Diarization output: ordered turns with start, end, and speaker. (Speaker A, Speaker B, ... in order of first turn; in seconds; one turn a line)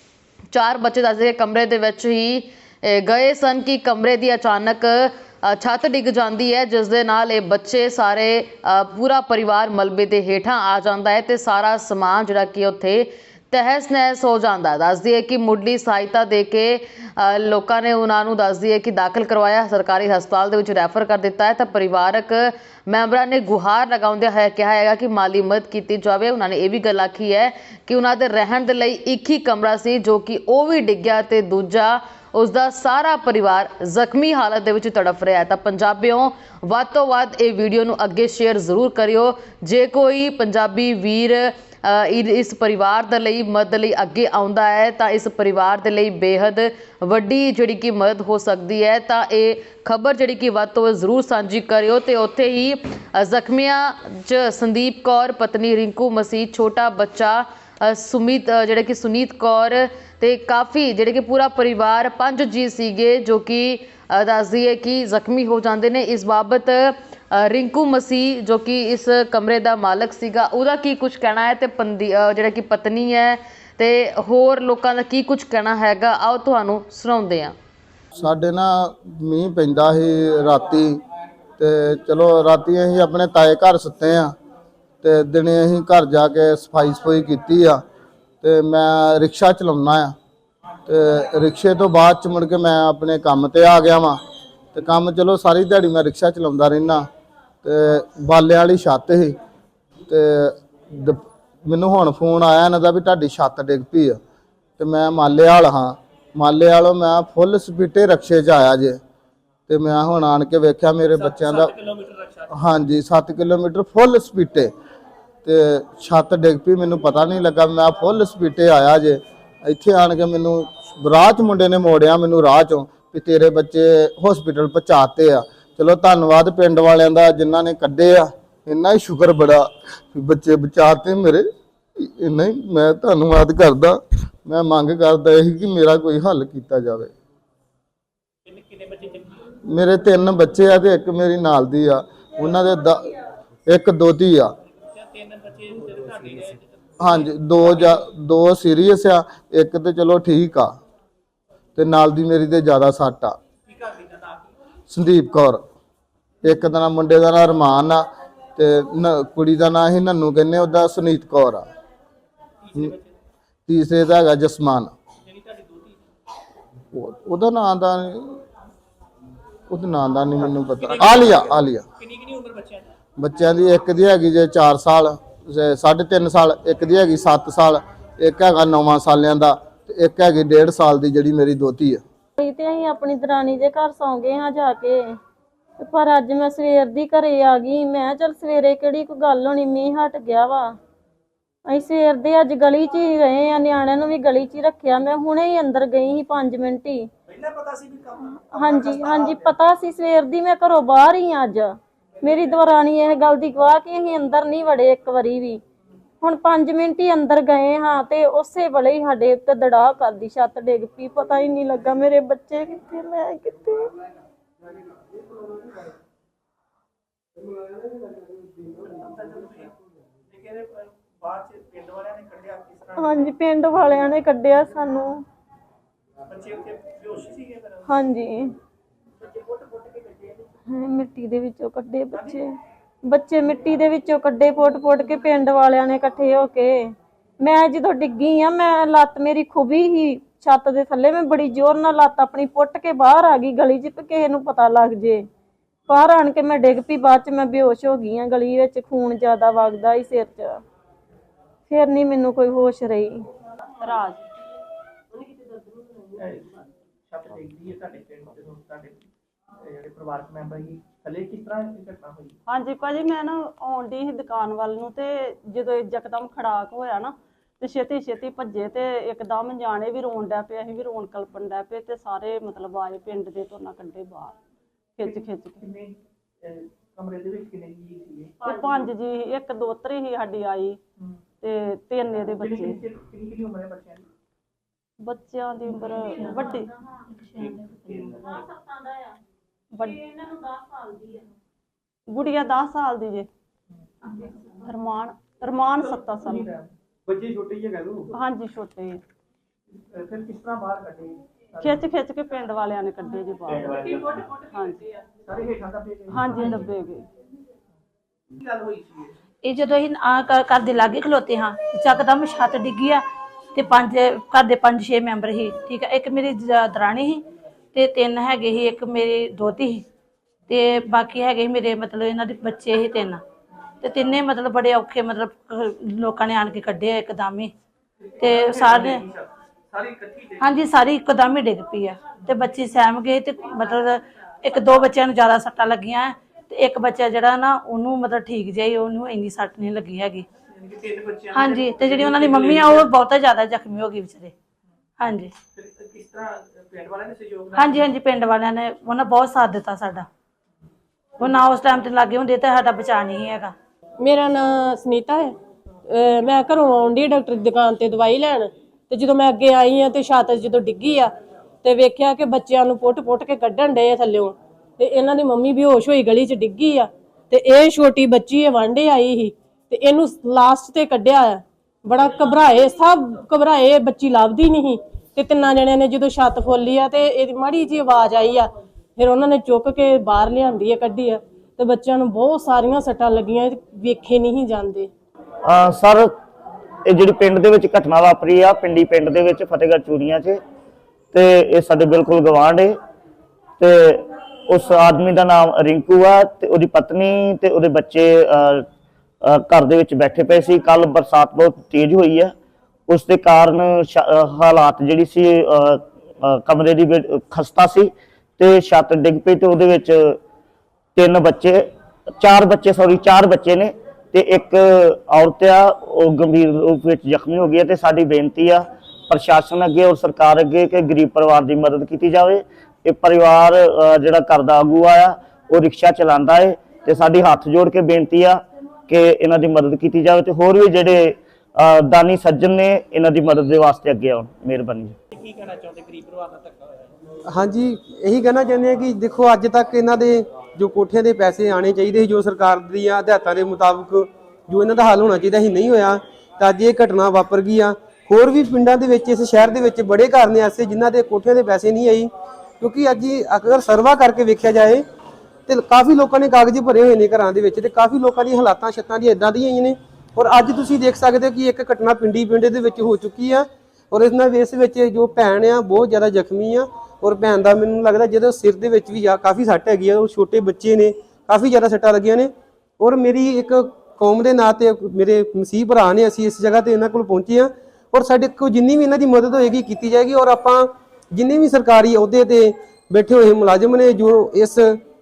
Speaker A: 0.5-77.5
Speaker B: 78.1-81.0
Speaker B: 81.6-84.3
Speaker B: 85.0-87.8
Speaker B: 88.4-90.1
Speaker B: 90.8-94.2
Speaker B: 94.7-97.1
Speaker B: 97.6-99.3
Speaker B: 100.1-104.2
Speaker B: 104.8-109.0
Speaker B: 109.7-111.7
Speaker C: 111.3-112.5
Speaker B: 112.5-114.7
Speaker B: 115.4-131.5
Speaker B: 132.0-137.1
Speaker C: 138.5-139.4
Speaker B: 139.7-143.1
Speaker B: 143.7-144.5
Speaker C: 145.0-147.1
Speaker B: 147.0-150.7
Speaker B: 151.8-153.4
Speaker C: 153.8-154.4
Speaker B: 154.9-155.6
Speaker B: 156.4-158.0
Speaker B: 158.6-161.7
Speaker C: 162.6-163.0
Speaker B: 163.7-164.9
Speaker C: 165.3-165.9
Speaker B: 166.9-168.4
Speaker B: 169.7-171.8
Speaker C: 170.8-172.8
Speaker B: 173.2-182.0
Speaker D: 182.4-185.1
Speaker D: 185.8-190.7
Speaker D: 191.7-197.1
Speaker C: 197.3-199.5
Speaker D: 198.5-205.6
Speaker D: 206.2-213.9
Speaker C: 218.8-219.7
Speaker C: 220.3-223.3
Speaker D: 222.9-225.2
Speaker C: 226.3-227.9
Speaker D: 227.9-228.5
Speaker C: 229.4-230.3
Speaker D: 230.7-232.5
Speaker C: 232.1-232.4
Speaker D: 233.0-245.2
Speaker D: 245.9-250.6
Speaker D: 251.7-253.2
Speaker E: 253.8-254.2
Speaker C: 256.2-256.5
Speaker C: 257.1-259.0
Speaker C: 259.6-262.3
Speaker E: 262.5-274.3
Speaker E: 275.0-275.6
Speaker C: 275.0-278.4
Speaker E: 278.4-280.8
Speaker D: 278.4-278.8
Speaker E: 281.4-282.8
Speaker C: 282.3-284.1
Speaker E: 285.0-286.7
Speaker D: 285.9-286.9
Speaker C: 287.6-288.3
Speaker D: 288.1-289.2
Speaker E: 289.7-290.0
Speaker D: 289.8-291.2
Speaker E: 292.1-293.3
Speaker E: 294.6-296.5
Speaker C: 295.8-298.1
Speaker E: 298.1-299.0
Speaker C: 299.9-301.8
Speaker E: 301.6-304.9
Speaker C: 303.5-304.2
Speaker C: 305.3-306.4
Speaker E: 306.1-307.1
Speaker C: 308.4-309.1
Speaker F: 309.4-313.0
Speaker F: 313.5-319.9
Speaker F: 320.5-323.2
Speaker F: 323.8-327.5
Speaker C: 328.2-330.6
Speaker F: 328.2-329.0
Speaker F: 330.4-340.2
Speaker C: 340.6-342.9
Speaker F: 341.3-344.3
Speaker F: 345.0-345.3
Speaker C: 345.6-347.9
Speaker F: 347.6-350.1
Speaker F: 351.2-353.5
Speaker G: 354.0-355.3
Speaker G: 355.9-384.9
Speaker H: 385.4-386.1
Speaker H: 386.9-390.4
Speaker H: 391.1-392.7
Speaker H: 393.6-398.6
Speaker H: 399.2-402.3
Speaker H: 402.9-410.2
Speaker H: 410.9-411.6
Speaker H: 412.2-434.9
Speaker C: 435.1-436.9
Speaker I: 437.3-454.8
Speaker I: 455.5-484.8